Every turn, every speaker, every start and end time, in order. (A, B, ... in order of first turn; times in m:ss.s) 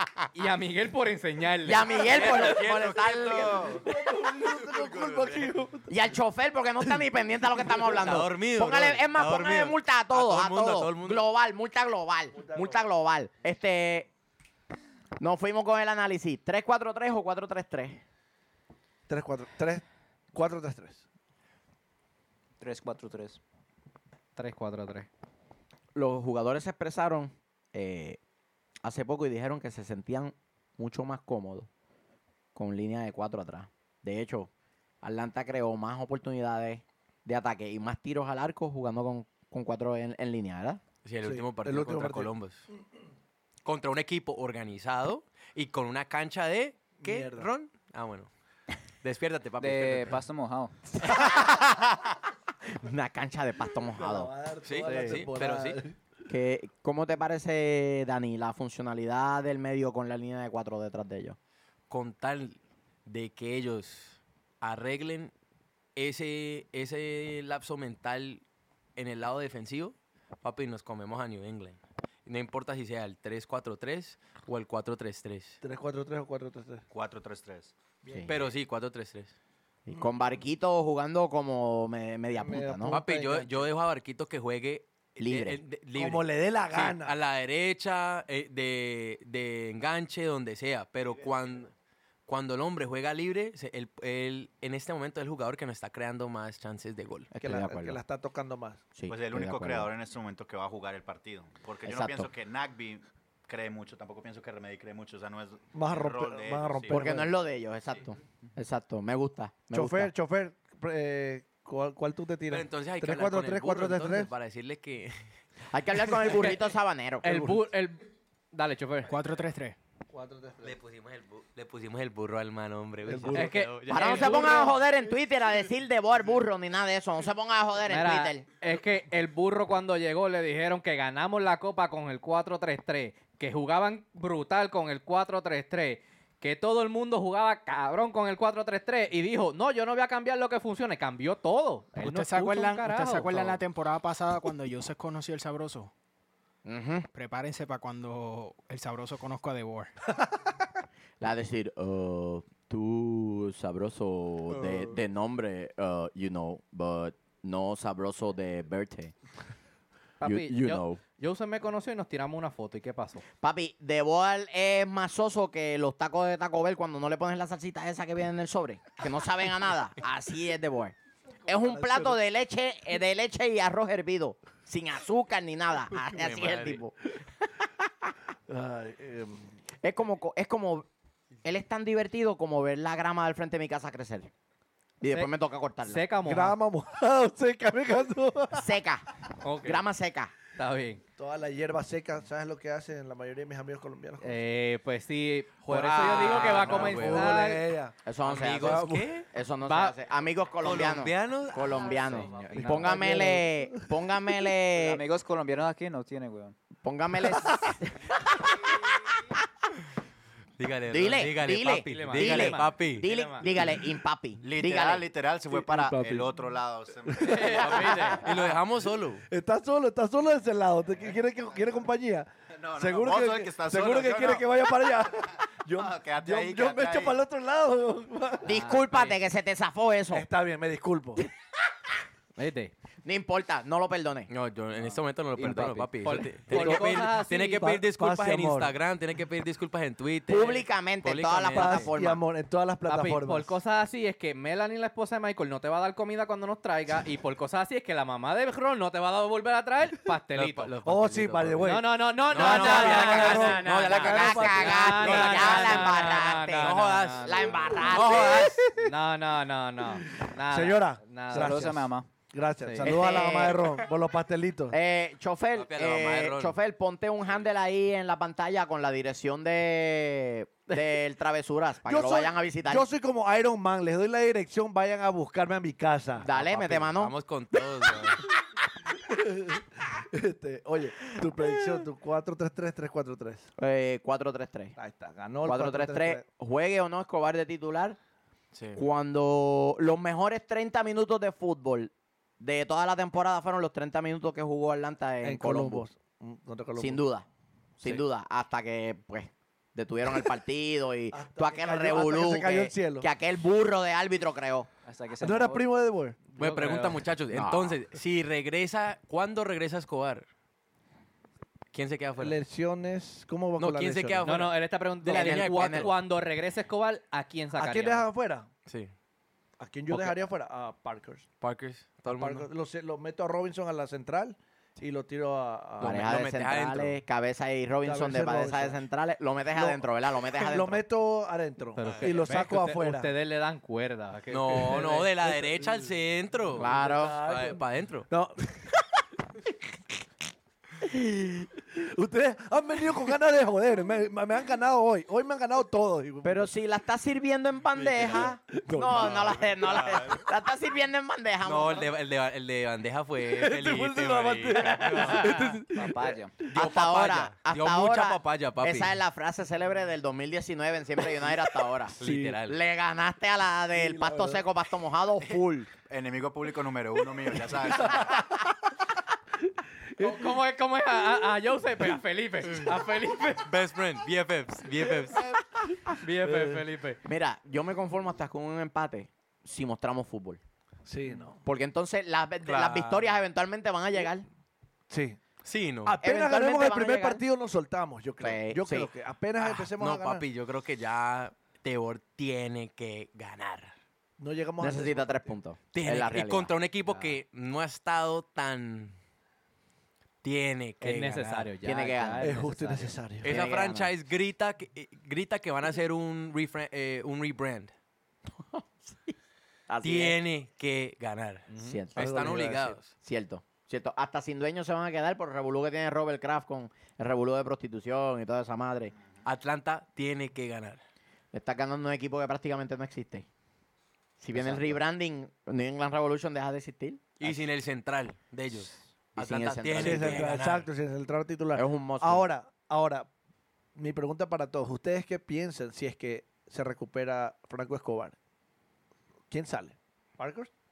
0:00.3-0:02.0 A
0:01.6-0:03.8 B
0:01.9-0:05.6 C
0:02.6-0:03.7 D
0:03.7-0:06.0 E
0:05.9-0:14.1 B
0:07.8-0:11.2 C
0:12.3-0:12.8 E
0:15.2-0:18.0 B
0:19.1-0:21.0 E
0:22.6-0:23.4 F
0:24.4-0:25.1 A
0:25.9-0:28.2 B
0:28.8-0:31.7 B
0:32.5-0:34.5 B
0:35.0-0:40.8 B
0:41.0-0:42.6 C
0:41.2-0:42.3 E
0:43.6-0:48.3 C
0:47.0-0:47.5 E
0:49.0-0:50.2 C
0:49.6-0:50.8 F
0:50.9-0:52.1 B
0:52.8-0:54.3 B
0:53.9-0:56.0 E
0:54.6-0:55.8 C
0:56.3-1:01.4 B
1:01.9-1:05.3 C
1:05.9-1:08.4 C
1:09.0-1:15.6 C
1:15.6-1:16.8 E
1:16.9-1:17.7 D
1:18.0-1:18.5 E
1:18.0-1:18.4 B
1:18.2-1:19.3 C
1:19.9-1:23.0 B
1:22.3-1:23.7 E
1:22.9-1:31.7 C
1:25.2-1:25.6 B
1:25.9-1:27.2 E
1:32.2-1:37.3 C
1:37.3-1:38.0 B
1:37.4-1:38.8 E
1:38.9-1:39.9 B
1:39.1-1:47.0 D
1:41.8-1:42.3 B
1:45.7-1:47.3 E
1:46.9-1:50.1 B
1:49.7-1:54.3 E
1:52.5-1:55.2 C
1:55.7-1:57.6 B
1:56.2-1:56.7 A
1:57.2-1:59.2 A
1:59.0-1:59.8 G
2:00.1-2:00.8 E
2:00.6-2:04.6 C
2:03.0-2:03.7 E
2:03.3-2:04.8 A
2:03.9-2:08.4 B
2:07.9-2:23.6 A
2:22.0-2:25.9 G
2:26.6-2:27.1 B
2:27.1-2:29.9 G
2:31.2-2:39.1 B
2:40.2-2:43.2 A
2:40.2-2:41.0 B
2:43.4-2:50.9 B
2:51.5-2:56.9 B
2:51.5-2:52.2 E
2:56.0-2:56.8 C
2:57.6-2:58.1 B
2:58.5-2:59.5 E
2:59.8-3:00.9 B
3:01.4-3:04.3 B
3:05.0-3:06.0 B
3:05.8-3:06.6 A
3:06.2-3:08.7 E
3:08.5-3:09.0 B
3:09.4-3:09.8 A
3:09.6-3:10.3 B
3:10.6-3:11.0 A
3:11.2-3:14.4 E
3:14.2-3:17.6 A
3:15.6-3:17.6 C
3:15.8-3:17.9 E
3:18.0-3:25.0 B
3:18.2-3:19.3 C
3:19.6-3:19.9 A
3:20.6-3:22.0 C
3:22.0-3:23.0 A
3:22.5-3:23.7 E
3:24.7-3:26.5 F
3:26.8-3:28.8 B
3:30.6-3:33.1 C
3:30.9-3:35.1 B
3:31.9-3:33.4 A
3:34.4-3:37.8 D
3:35.5-3:36.4 E
3:37.0-3:38.6 E
3:37.2-3:38.2 A
3:37.6-3:39.2 C
3:39.3-3:48.4 E
3:42.6-3:44.5 D
3:45.7-3:47.2 D
3:48.4-3:49.2 A
3:48.4-3:50.2 B
3:50.1-3:51.2 E
3:52.4-3:52.7 A
3:53.0-3:54.3 B
3:54.3-4:01.9 C
3:55.3-3:56.2 F
3:56.0-3:57.7 A
3:56.5-3:58.8 E
4:00.3-4:02.2 B
4:01.5-4:03.6 E
4:02.9-4:10.7 A
4:10.3-4:11.8 C
4:10.8-4:15.7 E
4:11.6-4:17.8 A
4:12.3-4:18.7 C
4:12.4-4:18.5 B
4:18.8-4:21.7 A
4:20.4-4:24.8 E
4:21.3-4:22.1 F
4:22.6-4:22.9 A
4:22.8-4:23.8 B
4:24.7-4:32.8 B
4:25.5-4:26.6 C
4:31.8-4:36.2 E
4:36.2-4:38.2 C
4:36.2-4:37.1 B
4:38.9-4:43.5 E
4:43.6-4:44.7 B
4:44.8-4:46.2 E
4:45.4-4:48.0 B
4:48.5-4:48.8 C
4:48.7-4:55.8 B
4:55.2-4:57.0 E
4:56.8-4:57.2 B
4:57.8-5:04.7 B
5:01.1-5:03.1 E
5:04.8-5:05.6 F
5:05.2-5:06.7 E
5:06.4-5:10.3 C
5:06.4-5:07.0 A
5:07.3-5:07.8 B
5:11.7-5:12.4 C
5:12.2-5:14.3 E
5:13.6-5:15.9 C
5:14.2-5:18.0 A
5:15.0-5:15.9 B
5:17.5-5:18.5 E
5:18.7-5:18.9 C
5:19.6-5:21.3 E
5:21.4-5:22.5 C
5:22.0-5:26.2 E
5:25.8-5:27.0 C
5:25.8-5:30.8 B
5:27.8-5:28.8 E
5:29.5-5:33.1 E
5:31.8-5:35.1 A
5:31.8-5:32.2 C
5:34.3-5:38.1 C
5:34.5-5:35.9 E
5:36.6-5:37.2 B
5:36.6-5:38.4 E
5:41.0-5:46.5 E
5:46.2-5:51.9 B
5:47.7-5:48.3 C
5:48.5-5:49.8 E
5:48.9-5:50.2 C
5:51.4-5:55.4 C
5:53.2-5:56.4 E
5:54.9-5:55.5 A
5:55.7-5:56.4 F
5:56.5-5:59.0 C
5:56.5-6:05.7 B
6:02.0-6:02.4 E
6:02.0-6:02.6 C
6:03.7-6:04.5 E
6:05.9-6:08.2 D
6:07.8-6:08.1 E
6:09.9-6:10.4 E
6:10.0-6:13.5 A
6:13.4-6:15.3 C
6:16.0-6:17.0 A
6:16.2-6:16.6 E
6:17.0-6:20.4 B
6:20.8-6:21.4 E
6:21.4-6:24.2 B
6:22.4-6:23.1 C
6:24.9-6:25.2 E
6:25.4-6:26.0 C
6:25.8-6:30.2 E
6:26.0-6:27.2 B
6:28.2-6:28.9 B
6:29.4-6:33.7 C
6:34.2-6:35.3 E
6:34.6-6:36.5 B
6:35.7-6:39.0 C
6:40.2-6:41.4 C
6:40.8-6:42.9 A
6:41.6-6:42.5 B
6:42.2-6:43.4 E
6:43.2-6:47.7 C
6:43.2-6:43.9 B
6:48.3-6:49.1 B
6:49.7-6:50.2 B
6:49.8-6:52.9 C
6:51.5-6:51.8 A
6:51.6-6:52.4 B
6:52.0-6:52.8 E
6:52.9-6:58.9 B
6:59.2-7:00.8 C
7:01.3-7:03.3 B
7:04.2-7:07.4 B
7:04.3-7:04.8 C
7:07.2-7:10.6 C
7:09.2-7:10.4 B
7:09.7-7:13.1 E
7:11.5-7:12.2 B
7:13.7-7:18.1 E
7:19.3-7:20.5 E